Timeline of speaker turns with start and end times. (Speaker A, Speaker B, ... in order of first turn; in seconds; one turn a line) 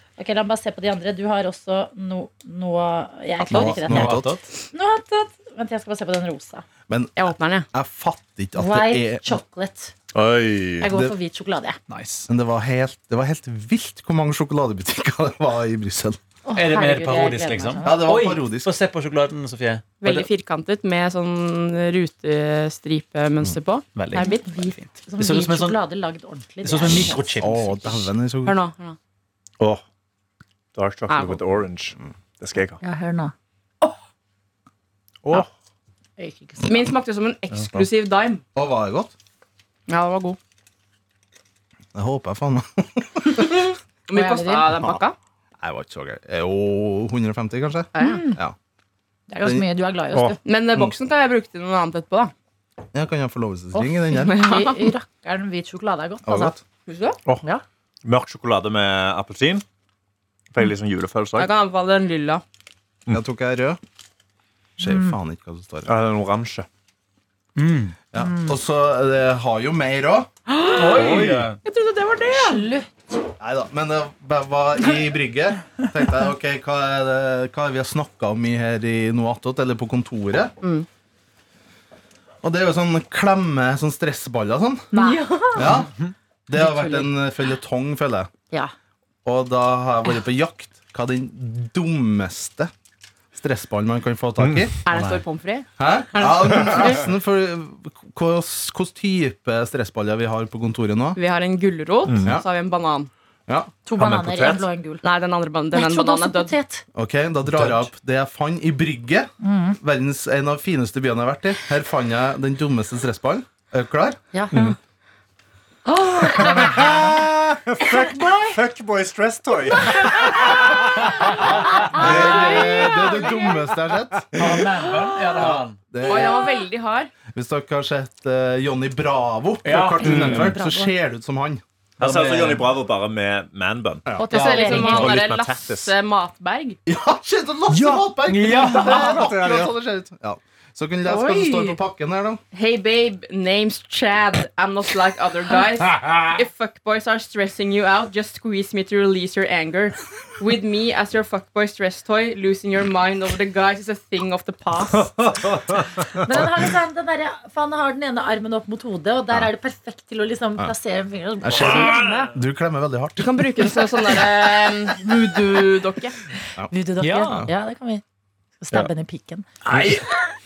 Speaker A: 0.2-4.2
Speaker B: 3.5-4.3
Speaker C: 3.5-4.5
Speaker A: 4.7-6.6
Speaker B: 6.9-7.1
Speaker D: 7.2-7.7
Speaker B: 7.7-9.3
Speaker A: 8.6-9.9
Speaker E: 10.1-10.9
Speaker A: 10.8-11.8
Speaker C: 11.9-12.3
Speaker B: 12.3-16.2
Speaker A: 16.4-18.1
Speaker C: 16.5-20.3
Speaker B: 17.8-18.7
Speaker D: 20.0-24.6
Speaker C: 23.9-25.8
Speaker A: 24.1-27.3
Speaker C: 26.6-27.8
Speaker B: 27.4-28.6
Speaker D: 28.4-29.0
Speaker E: 30.7-32.8
Speaker D: 31.1-31.4
Speaker A: 32.8-33.9
Speaker A: 36.2-36.9
Speaker D: 36.6-38.4
Speaker B: 38.5-39.1
Speaker D: 39.9-40.4
Speaker B: 41.9-43.6
Speaker D: 43.4-45.1
Speaker A: 44.1-44.7
Speaker B: 44.7-45.0
Speaker B: 45.6-48.5
Speaker D: 47.9-48.2
Speaker A: 48.0-48.4
Speaker A: 49.3-50.4
Speaker D: 50.4-52.3
Speaker B: 52.9-54.4
Speaker A: 53.7-56.5
Speaker D: 54.2-54.9
Speaker B: 56.2-56.6
Speaker D: 56.9-57.2
Speaker E: 58.0-59.6
Speaker E: 60.5-61.5
Speaker D: 61.4-62.4
Speaker B: 63.1-63.8
Speaker B: 64.8-65.9
Speaker A: 64.8-65.1
Speaker E: 65.8-66.7
Speaker C: 67.6-67.9
Speaker B: 68.1-70.3
Speaker A: 68.2-68.5
Speaker D: 70.5-72.6
Speaker C: 70.7-71.6
Speaker E: 70.9-71.5
Speaker A: 72.3-72.9
Speaker B: 73.4-80.5
Speaker D: 80.6-80.9
Speaker B: 82.4-84.9
Speaker A: 84.9-85.8
Speaker D: 85.0-85.8
Speaker B: 85.5-85.9
Speaker B: 86.5-88.3
Speaker A: 86.6-87.0
Speaker B: 89.2-92.7
Speaker B: 93.3-94.8
Speaker E: 94.4-94.7
Speaker D: 94.8-97.0
Speaker C: 94.9-95.2
Speaker B: 95.8-101.2
Speaker D: 101.2-103.1
Speaker E: 102.0-102.3
Speaker B: 103.5-103.7
Speaker A: 103.8-105.0
Speaker E: 104.0-104.7
Speaker D: 105.0-106.5
Speaker A: 105.7-106.8
Speaker B: 106.9-114.2
Speaker A: 109.4-109.8
Speaker A: 114.3-114.7
Speaker A: 115.9-117.0
Speaker E: 116.3-122.9
Speaker C: 121.2-121.8
Speaker A: 121.8-123.0
Speaker B: 121.8-124.5
Speaker C: 124.3-125.8
Speaker B: 125.4-126.5
Speaker D: 126.0-127.1
Speaker B: 127.3-131.6
Speaker C: 129.6-130.4
Speaker A: 130.0-130.9
Speaker E: 130.0-130.5
Speaker C: 132.0-132.7
Speaker E: 132.0-135.9
Speaker A: 134.2-135.2
Speaker D: 134.3-136.8
Speaker C: 134.3-134.7
Speaker B: 136.8-142.4
Speaker E: 137.7-139.7
Speaker C: 138.3-139.2
Speaker A: 141.1-141.8
Speaker D: 142.5-155.1
Speaker E: 154.9-156.2
Speaker A: 156.2-162.3
Speaker B: 161.4-163.5
Speaker E: 161.8-162.0
Speaker D: 163.2-166.2
Speaker A: 166.7-168.0
Speaker C: 167.0-167.5
Speaker A: 168.6-169.5
Speaker E: 169.7-170.0
Speaker B: 169.7-170.0